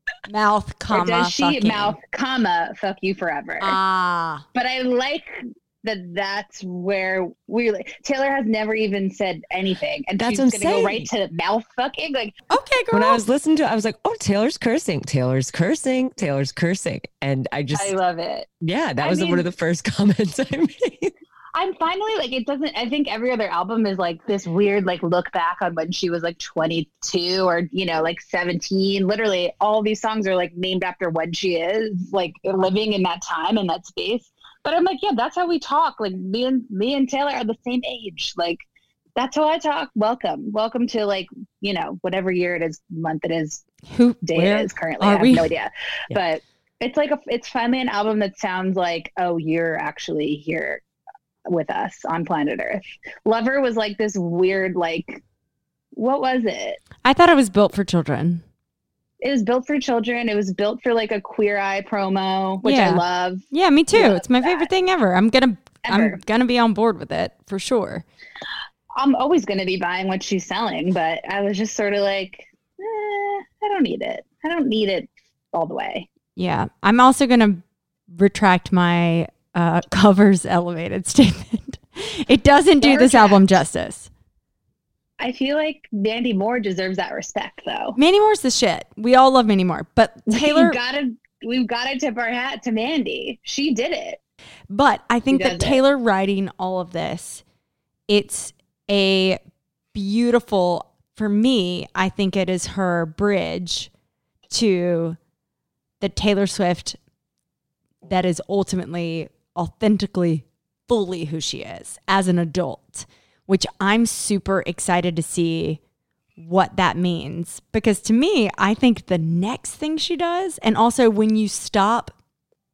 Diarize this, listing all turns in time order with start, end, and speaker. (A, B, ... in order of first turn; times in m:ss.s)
0:00.3-0:02.0 A
0:00.9-0:03.8 B
0:03.6-0:04.4 A
0:04.5-0:12.4 B
0:10.2-0:11.1 C
0:12.5-0:13.2 A
0:12.9-0:18.0 C
0:17.7-0:18.5 B
0:18.6-0:21.1 C
0:19.0-0:19.4 B
0:21.5-0:38.6 B
0:39.2-0:43.6 B
0:43.9-0:45.5 A
0:44.2-0:50.8 B
0:51.5-0:55.2 B
0:56.0-0:56.8 B
0:57.0-0:58.4 A
0:59.2-1:04.7 B
1:02.6-1:08.0 A
1:05.8-1:06.2 B
1:09.0-1:16.1 B
1:16.4-1:24.1 A
1:22.8-1:23.6 B
1:25.2-1:28.0 B
1:28.0-1:30.8 A
1:30.3-1:34.2 B
1:34.7-1:37.4 A
1:35.3-1:35.8 B
1:38.1-1:39.4 A
1:39.9-1:43.9 A
1:44.5-1:45.2 A
1:46.0-1:47.0 A
1:48.0-1:55.8 A
1:56.4-2:02.2 A